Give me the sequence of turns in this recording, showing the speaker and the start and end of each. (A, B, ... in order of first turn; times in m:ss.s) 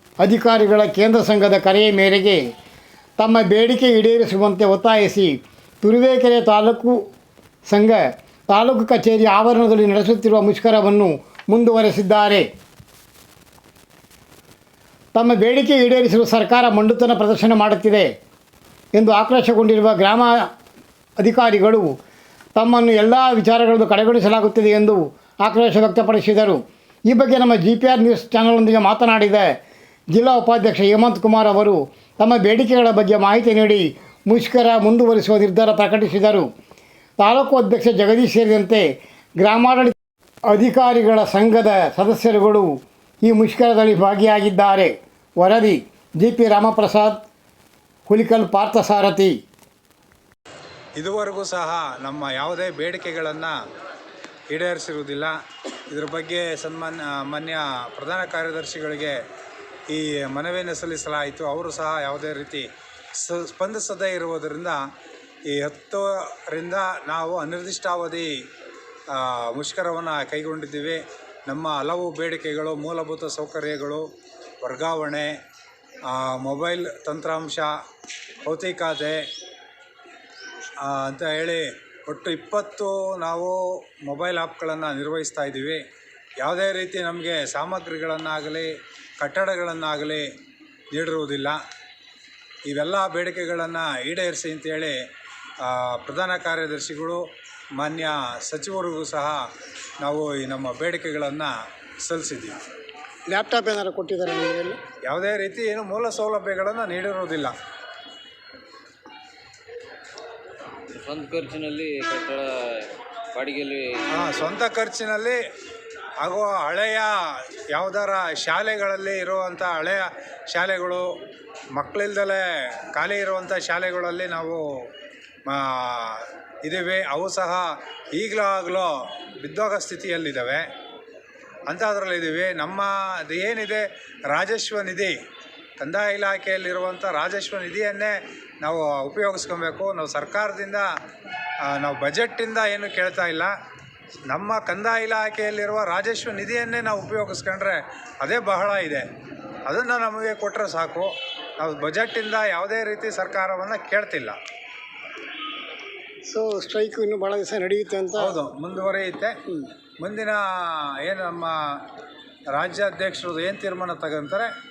0:00.2-0:02.5 A
0:03.2-0:07.0 A
0:07.7-0:12.5 A
0:15.1-0:18.1 A
0:18.9-0:20.5 A
0:21.2-0:22.0 A
0:22.6-0:29.5 A
0:30.1-0:36.5 A
0:37.2-0:40.0 A
0:40.5-0:47.2 A
0:48.1-0:49.4 A
0:51.0-0:53.6 B
0:54.5-0:55.4 B
0:55.9-0:59.2 B
0:59.9-1:04.8 B
1:05.5-1:08.3 B
1:09.1-1:14.1 B
1:14.6-1:15.3 B
1:16.0-1:17.8 B
1:18.4-1:19.2 B
1:20.8-1:25.8 B
1:26.4-1:30.3 B
1:30.9-1:31.6 B
1:32.7-1:35.0 B
1:35.6-1:37.2 B
1:37.8-1:39.5 B
1:40.0-1:42.6 B
1:43.3-1:44.8 A
1:45.1-1:47.5 B
1:50.9-1:54.1 C
1:54.1-1:55.4 B
1:56.2-2:01.1 B
2:01.7-2:04.9 B
2:05.5-2:10.7 B
2:11.7-2:15.2 B
2:15.8-2:20.9 B
2:21.6-2:23.5 B
2:24.3-2:29.1 B
2:29.6-2:34.4 B
2:36.3-2:38.4 A
2:38.2-2:39.4 B
2:40.0-2:41.8 B
2:42.6-2:44.5 B